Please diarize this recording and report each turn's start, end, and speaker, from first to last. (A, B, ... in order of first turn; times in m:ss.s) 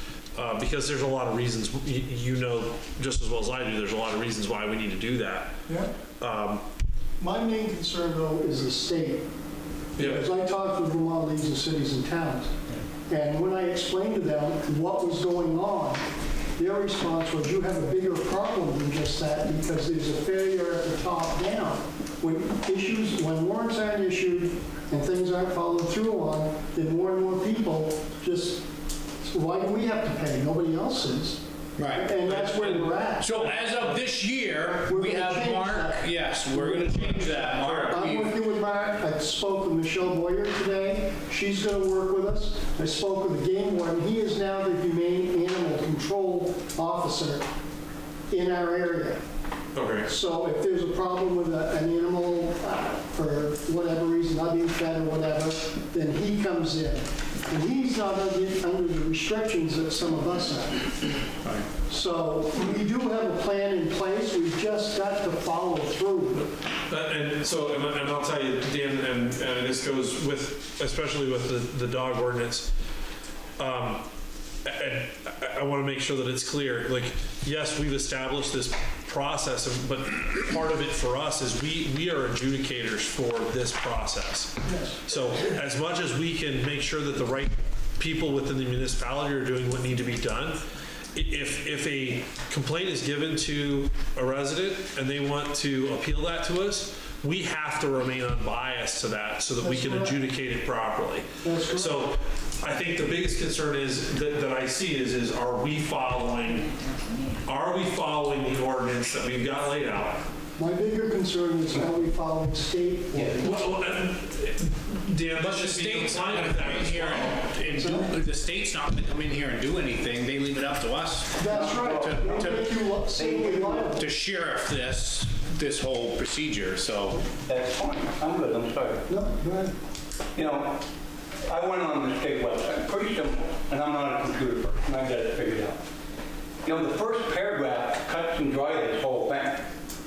0:00.4-0:05.5 A
0:06.2-0:06.6 A
0:07.2-0:09.2 B
0:10.0-0:10.3 A
0:10.0-0:12.5 B
0:13.1-0:16.0 B
0:16.6-0:28.7 B
0:29.2-0:33.6 B
0:31.8-0:32.7 C
0:33.2-0:38.3 C
0:34.9-0:47.5 B
0:37.6-0:38.0 A
0:48.3-0:49.2 B
0:49.8-0:50.1 A
0:50.0-1:01.1 B
1:01.9-1:06.5 B
1:06.9-1:12.7 A
1:13.6-1:14.1 A
1:14.6-1:30.6 A
1:24.7-1:25.0 B
1:31.2-1:46.7 A
1:39.6-1:40.2 B
1:41.4-1:42.1 B
1:47.5-1:50.2 A
1:50.6-1:53.5 B
1:53.3-1:57.4 A
1:55.4-2:02.7 C
1:57.8-1:58.1 B
2:01.4-2:04.0 B
2:01.5-2:04.0 D
2:04.0-2:07.2 C
2:07.4-2:09.1 D
2:09.1-2:09.7 B
2:10.4-2:10.8 D
2:11.5-2:15.8 D
2:16.6-2:19.7 D